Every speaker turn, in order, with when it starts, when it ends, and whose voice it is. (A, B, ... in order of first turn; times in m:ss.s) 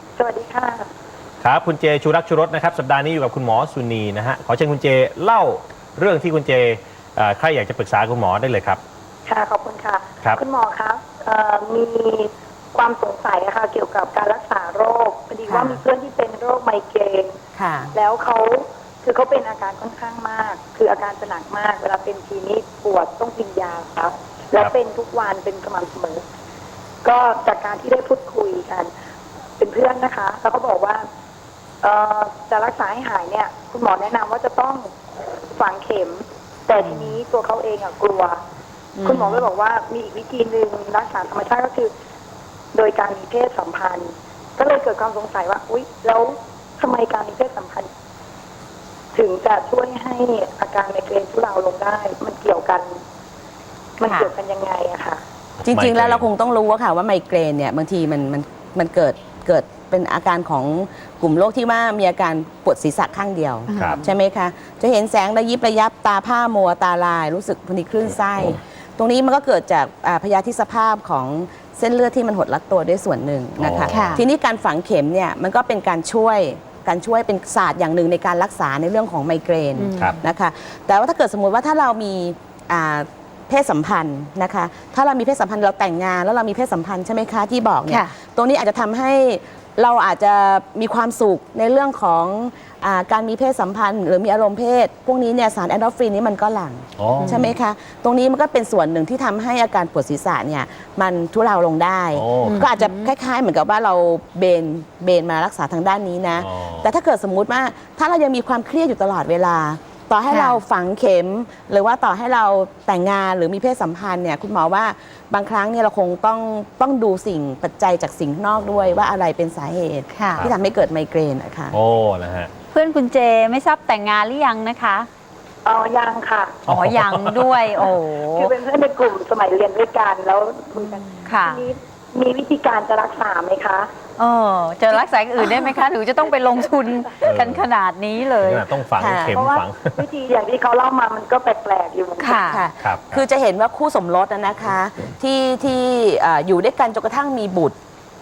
0:00.2-0:00.9 A
0:01.4-0:08.8 B
0:09.3-0:17.4 A
0:15.5-0:15.8 C
0:17.6-0:17.9 D
0:17.9-0:26.2 A
0:27.0-0:28.9 A
0:29.6-0:31.0 A
0:31.8-0:34.9 A
0:35.6-0:38.4 A
0:36.8-0:37.2 C
0:39.0-0:39.5 C
0:39.0-0:41.9 A
0:42.7-0:47.9 A
0:49.1-0:53.0 A
0:54.0-0:55.2 A
0:54.0-0:54.3 C
0:55.6-0:56.3 B
0:55.7-2:01.8 D
1:03.7-1:04.1 C
1:03.8-1:04.0 B
1:13.6-1:14.2 B
1:13.8-1:14.2 C
1:19.8-1:20.2 C
1:27.9-1:28.1 C
1:37.0-1:37.4 B
1:37.2-1:37.5 C
1:42.2-1:42.7 B
1:42.4-1:43.1 C
1:46.4-1:46.9 B
1:50.3-1:50.6 C
1:58.6-1:59.1 B
2:00.1-2:00.5 C
2:01.7-2:02.5 B
2:02.7-2:05.1 C
2:05.6-2:06.6 A
2:06.7-2:07.5 B
2:06.7-2:08.5 C
2:08.3-2:13.9 A
2:10.8-2:11.6 C
2:14.2-2:18.7 C
2:17.3-2:17.7 B
2:18.4-2:20.0 B
2:19.0-2:19.4 D
2:19.3-2:22.4 A
2:22.2-2:22.7 C
2:22.5-2:27.8 D
2:22.8-2:23.2 B